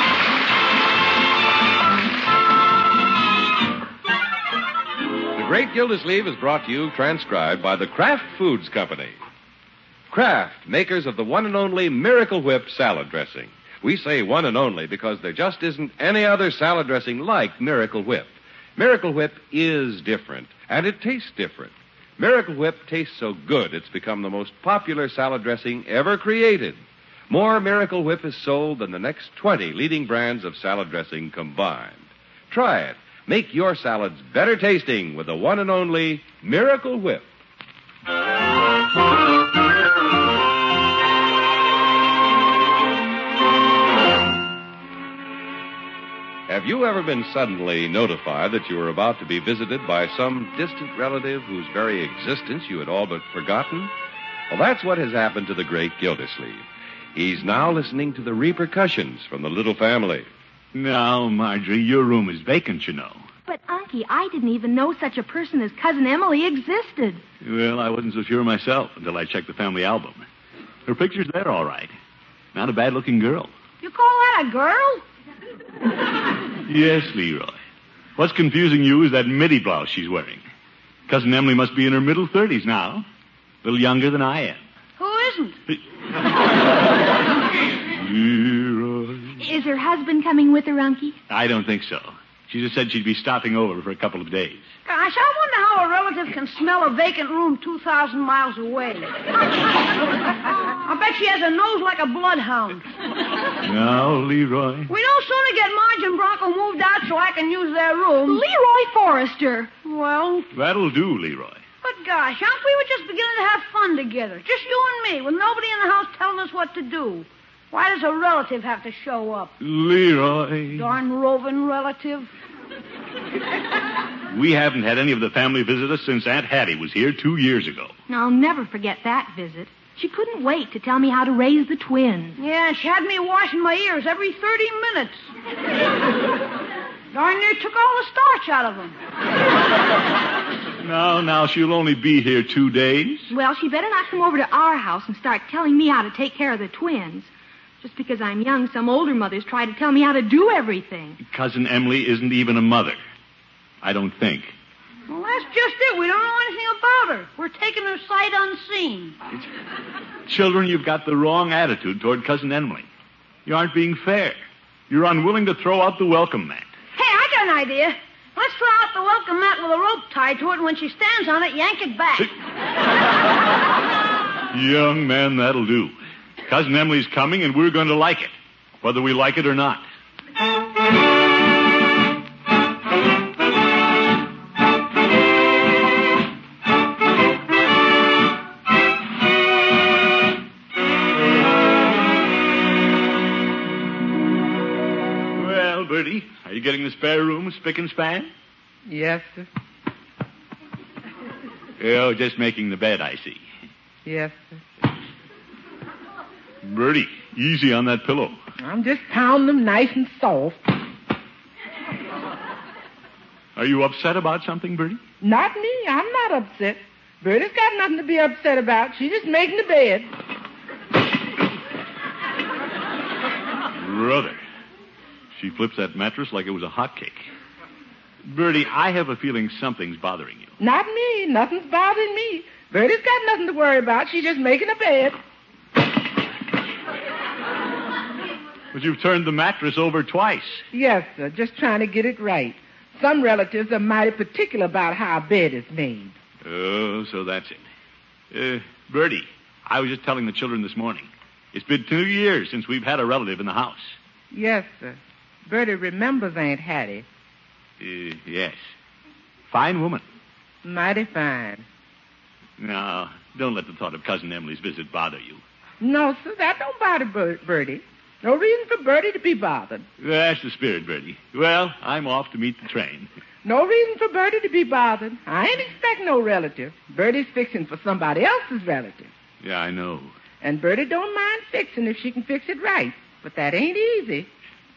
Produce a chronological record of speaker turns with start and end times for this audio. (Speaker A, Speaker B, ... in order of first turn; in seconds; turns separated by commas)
Speaker A: 5.3-9.2, Speaker A: 10.1-26.8, Speaker A: 27.3-37.2, Speaker A: 46.5-53.9, Speaker A: 54.5-56.6, Speaker A: 57.1-60.3, Speaker B: 60.7-63.2, Speaker C: 63.5-67.2, Speaker B: 67.4-70.2, Speaker B: 70.8-71.9, Speaker B: 72.5-73.5, Speaker D: 73.8-75.0, Speaker B: 76.6-77.6, Speaker B: 78.2-80.4, Speaker B: 81.1-83.0, Speaker B: 83.6-84.6, Speaker D: 85.0-85.6, Speaker B: 87.9-89.4, Speaker C: 89.4-91.2, Speaker B: 91.3-94.6, Speaker D: 94.8-99.1, Speaker D: 100.8-102.8, Speaker B: 103.6-104.9, Speaker D: 104.9-108.5, Speaker C: 108.2-109.7, Speaker D: 109.8-110.5, Speaker B: 110.5-111.6, Speaker D: 111.8-119.5, Speaker B: 119.6-120.9, Speaker D: 120.7-122.3, Speaker B: 124.3-127.9, Speaker C: 128.1-132.4, Speaker D: 132.4-135.2, Speaker D: 137.1-138.9, Speaker B: 140.8-143.3, Speaker C: 143.3-147.3, Speaker C: 147.8-151.2, Speaker B: 151.2-153.0, Speaker B: 153.8-154.5, Speaker D: 155.1-159.2, Speaker B: 160.2-162.8, Speaker B: 163.4-164.4, Speaker B: 164.9-166.7, Speaker D: 166.9-172.3, Speaker B: 174.5-175.9, Speaker B: 176.4-179.8, Speaker B: 195.3-198.3, Speaker E: 198.9-199.5, Speaker B: 201.8-203.4, Speaker E: 204.0-204.6, Speaker B: 206.6-208.3, Speaker E: 208.6-210.6, Speaker B: 213.6-215.0, Speaker E: 215.2-220.1, Speaker B: 223.8-224.4, Speaker B: 225.3-227.2, Speaker B: 228.2-230.5, Speaker E: 230.6-235.2, Speaker B: 238.7-240.6, Speaker E: 240.7-246.2, Speaker B: 246.4-247.6, Speaker B: 248.3-253.9, Speaker E: 254.3-257.0, Speaker B: 257.8-258.6, Speaker B: 259.5-260.0, Speaker E: 260.6-261.6, Speaker B: 262.6-265.4, Speaker E: 265.8-269.9, Speaker B: 270.0-273.1, Speaker E: 273.4-279.1, Speaker B: 279.4-280.1, Speaker E: 280.4-284.3